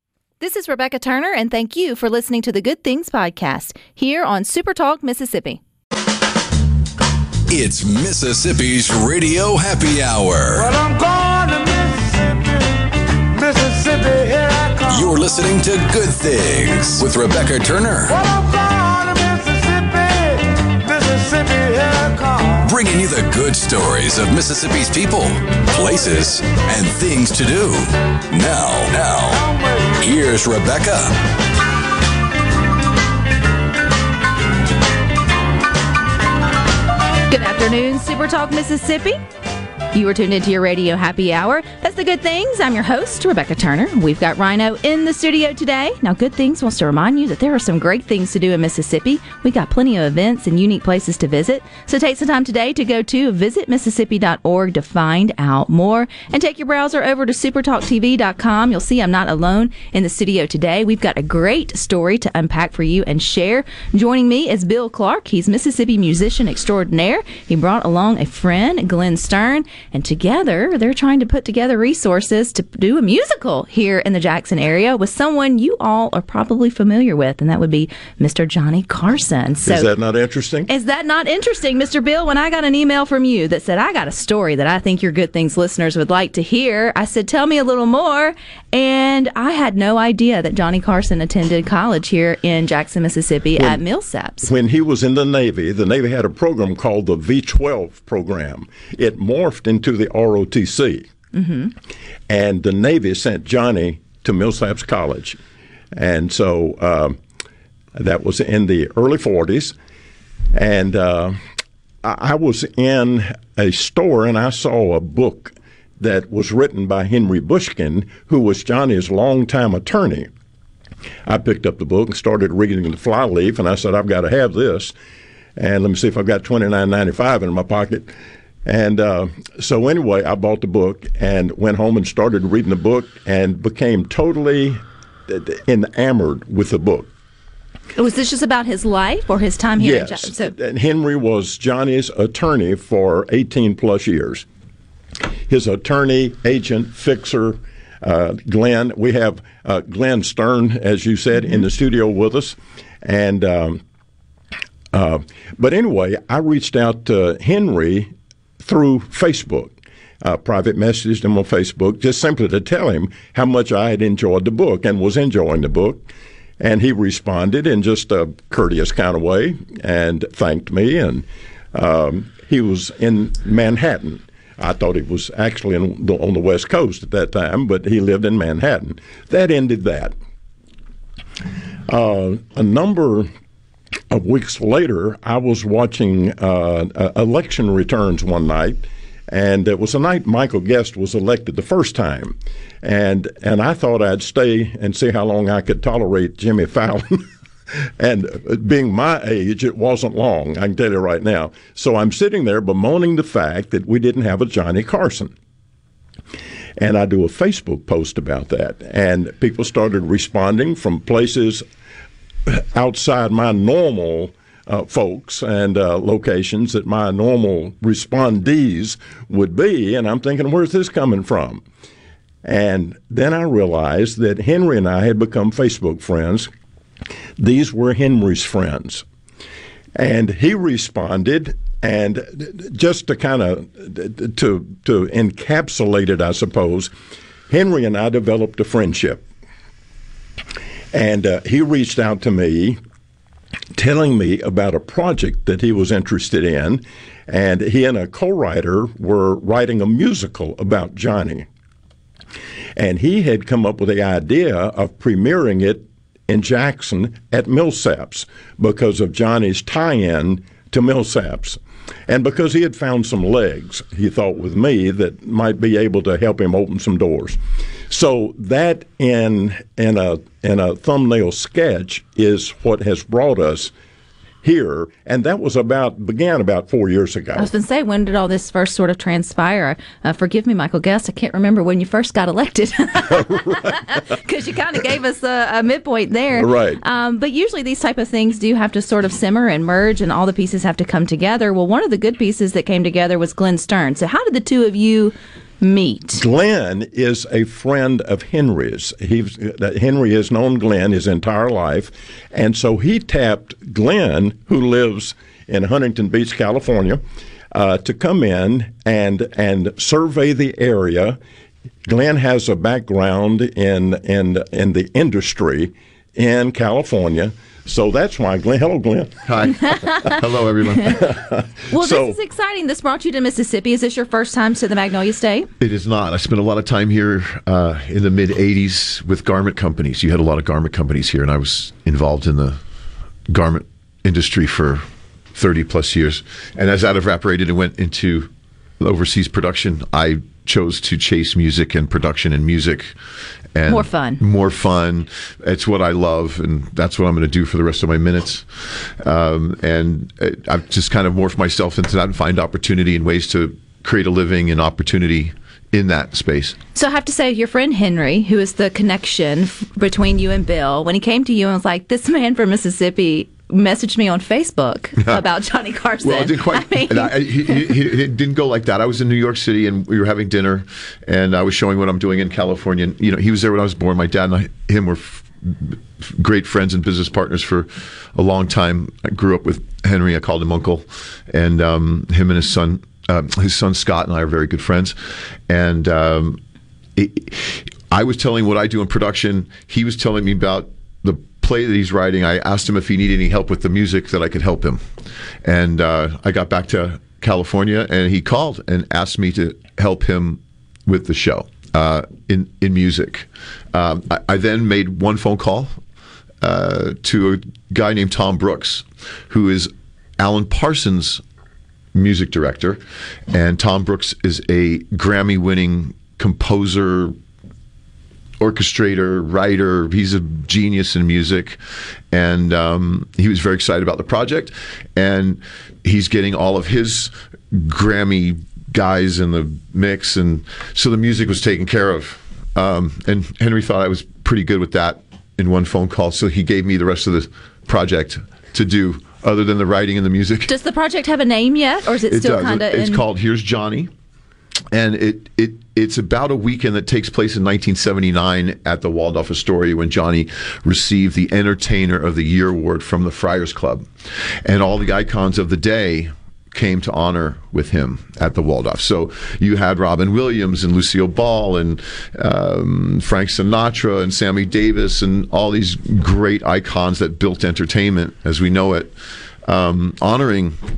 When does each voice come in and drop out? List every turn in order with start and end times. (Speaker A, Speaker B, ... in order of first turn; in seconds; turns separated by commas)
Speaker A: 0.4-5.6, Speaker B: 7.5-10.7, Speaker C: 10.6-12.3, Speaker C: 13.3-14.9, Speaker B: 14.9-18.2, Speaker C: 18.1-22.5, Speaker B: 22.6-31.2, Speaker A: 37.3-39.2, Speaker A: 39.9-79.9, Speaker D: 79.6-80.7, Speaker A: 80.7-94.5, Speaker D: 93.6-93.8, Speaker D: 94.4-101.1, Speaker A: 101.3-101.7, Speaker D: 102.3-105.4, Speaker D: 105.9-107.2, Speaker D: 108.0-109.7, Speaker D: 110.5-111.4, Speaker D: 112.0-120.3, Speaker D: 121.2-124.9, Speaker D: 125.6-128.1, Speaker D: 128.6-137.1, Speaker A: 137.9-140.5, Speaker D: 139.8-144.4, Speaker D: 145.5-153.8, Speaker D: 154.9-158.1, Speaker D: 158.6-166.1, Speaker D: 166.6-180.1, Speaker D: 181.9-183.3, Speaker D: 184.1-197.2, Speaker D: 198.0-205.3, Speaker D: 206.8-211.6, Speaker D: 212.5-221.6, Speaker D: 222.4-226.5, Speaker D: 227.4-229.0, Speaker D: 229.9-236.9, Speaker D: 237.5-239.2, Speaker D: 240.9-242.8, Speaker D: 243.7-251.5, Speaker D: 252.8-267.4, Speaker D: 267.9-273.7, Speaker D: 274.4-277.5, Speaker A: 277.4-296.2, Speaker D: 283.4-283.8, Speaker D: 286.3-286.8, Speaker D: 296.1-307.0, Speaker D: 307.5-311.2, Speaker D: 311.9-319.1, Speaker E: 319.3-321.1, Speaker A: 319.5-320.2, Speaker D: 320.9-322.2, Speaker A: 321.7-325.5, Speaker E: 325.6-332.6, Speaker E: 333.3-334.8, Speaker E: 335.3-342.9, Speaker E: 343.5-356.6, Speaker A: 343.7-344.2, Speaker A: 356.7-367.6, Speaker E: 366.0-386.4, Speaker E: 386.9-394.8, Speaker E: 395.4-405.7, Speaker E: 406.4-411.2, Speaker E: 411.9-417.1, Speaker E: 418.4-421.6, Speaker E: 422.1-440.5, Speaker A: 440.5-443.0, Speaker E: 442.1-443.9, Speaker E: 444.7-453.9, Speaker E: 454.4-468.9, Speaker E: 469.4-470.6